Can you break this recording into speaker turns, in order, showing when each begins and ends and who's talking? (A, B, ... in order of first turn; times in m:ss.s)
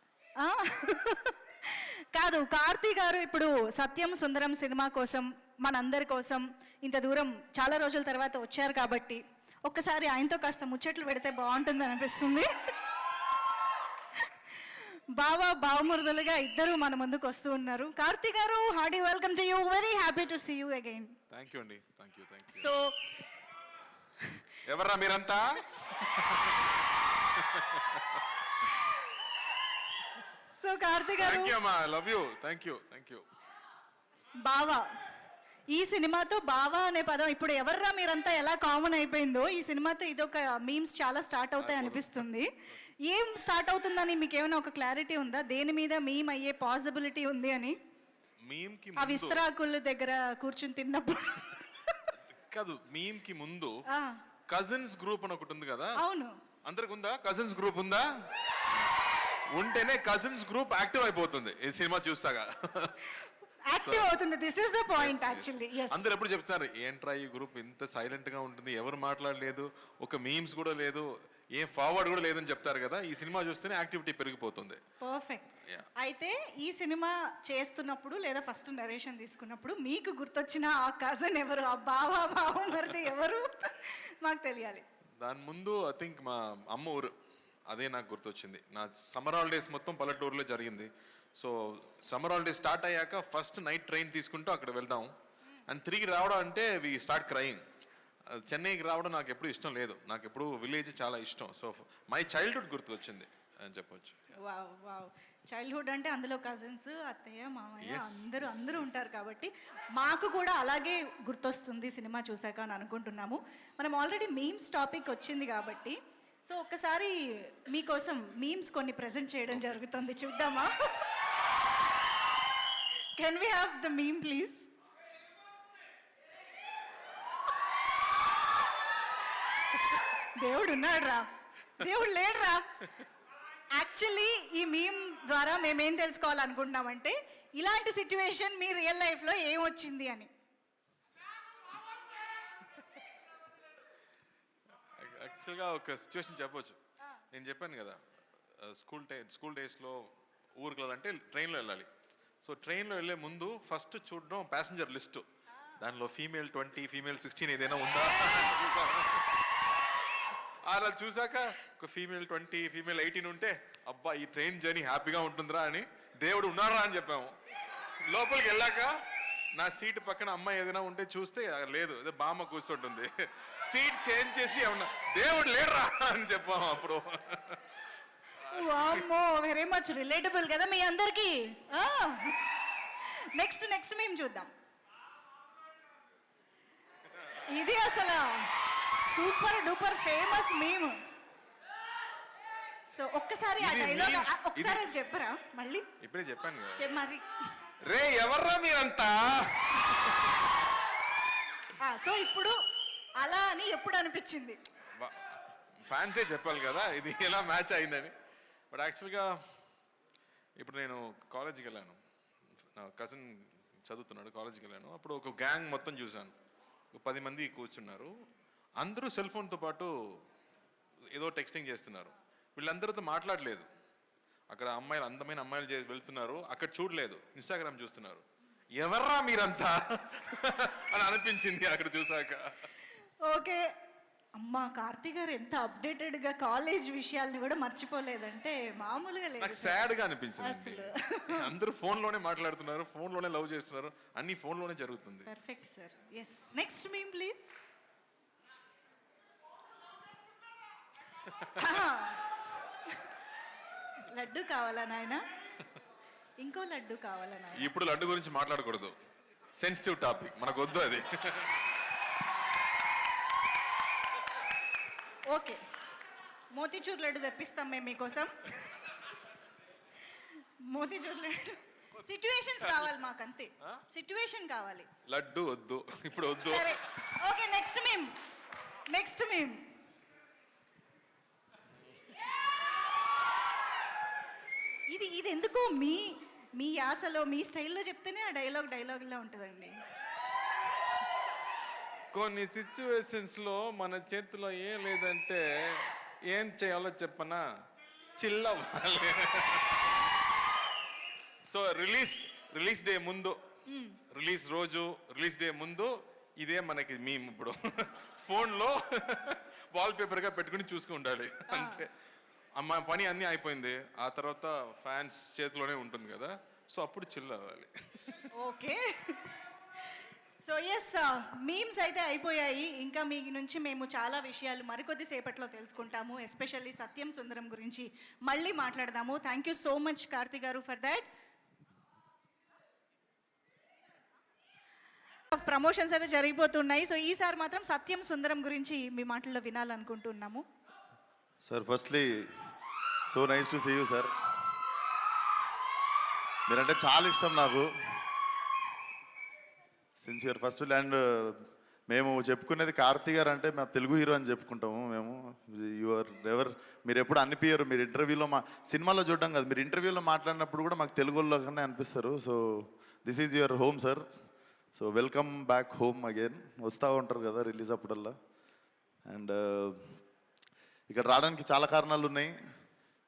0:00.4-0:12.5 A
0:14.3-0:21.1 A
0:21.3-0:22.7 B
0:22.5-0:22.9 A
0:24.6-0:26.7 B
0:27.2-0:28.2 B
0:28.7-0:29.0 A
0:30.5-0:31.5 A
0:31.2-0:33.2 B
0:34.4-0:34.8 A
0:35.7-0:42.5 A
0:41.6-0:42.2 B
0:43.0-0:47.8 A
0:48.4-0:49.4 B
0:49.0-0:52.1 A
0:52.5-0:53.7 B
0:53.9-0:54.2 A
0:54.5-0:56.0 B
0:56.0-0:56.3 A
0:56.6-0:58.1 B
0:59.5-1:03.2 B
1:03.7-1:06.0 A
1:03.8-1:04.1 B
1:04.9-1:14.8 B
1:15.0-1:24.8 A
1:25.2-1:27.1 B
1:27.7-1:35.1 B
1:35.7-1:37.6 B
1:38.3-1:44.3 B
1:44.4-2:01.1 A
1:47.8-1:49.0 B
2:03.2-2:04.7 A
2:09.8-2:11.2 A
2:11.8-2:12.6 A
2:13.7-2:20.3 A
2:25.0-2:26.8 B
2:27.3-2:28.0 B
2:28.6-2:31.9 B
2:32.4-2:35.2 B
2:35.8-2:39.2 B
2:40.6-2:47.3 B
2:48.0-2:48.9 B
2:49.5-2:57.6 B
2:58.4-3:02.4 A
2:58.4-2:59.1 B
3:03.0-3:04.5 A
3:07.3-3:11.0 A
3:12.9-3:15.9 A
3:13.6-3:14.9 B
3:16.0-3:16.9 B
3:16.8-3:17.3 A
3:17.8-3:20.3 B
3:21.8-3:22.5 A
3:23.2-3:24.6 A
3:25.0-3:28.1 B
3:28.7-3:29.3 B
3:30.6-3:32.0 B
3:32.8-3:33.3 B
3:33.8-3:36.3 B
3:36.9-3:38.1 B
3:38.8-3:39.9 B
3:41.1-3:43.7 B
3:44.5-3:48.2 B
3:48.8-3:52.7 B
3:53.2-3:53.6 A
3:54.4-3:59.8 A
3:59.4-4:05.3 B
4:00.4-4:01.5 A
4:05.3-4:07.6 A
4:11.5-4:12.3 A
4:14.1-4:15.2 A
4:16.4-4:17.7 A
4:17.6-4:18.9 B
4:19.6-4:21.6 B
4:25.3-4:25.6 A
4:26.5-4:28.5 A
4:30.6-4:34.9 A
4:35.1-4:36.8 B
4:36.3-4:38.1 A
4:38.9-4:39.6 A
4:44.9-4:49.8 A
4:52.1-4:57.4 B
4:58.2-4:59.8 B
5:01.5-5:03.4 B
5:03.7-5:04.0 A
5:04.1-5:11.9 B
5:11.5-5:11.8 A
5:12.6-5:18.3 B
5:18.4-5:19.3 A
5:20.4-5:31.1 A
5:35.3-5:40.4 A
5:41.4-5:42.2 C
5:43.1-5:44.1 C
5:46.5-5:47.7 C
5:50.0-6:04.0 C
6:04.7-6:08.1 C
6:09.0-6:09.9 C
6:10.9-6:12.3 C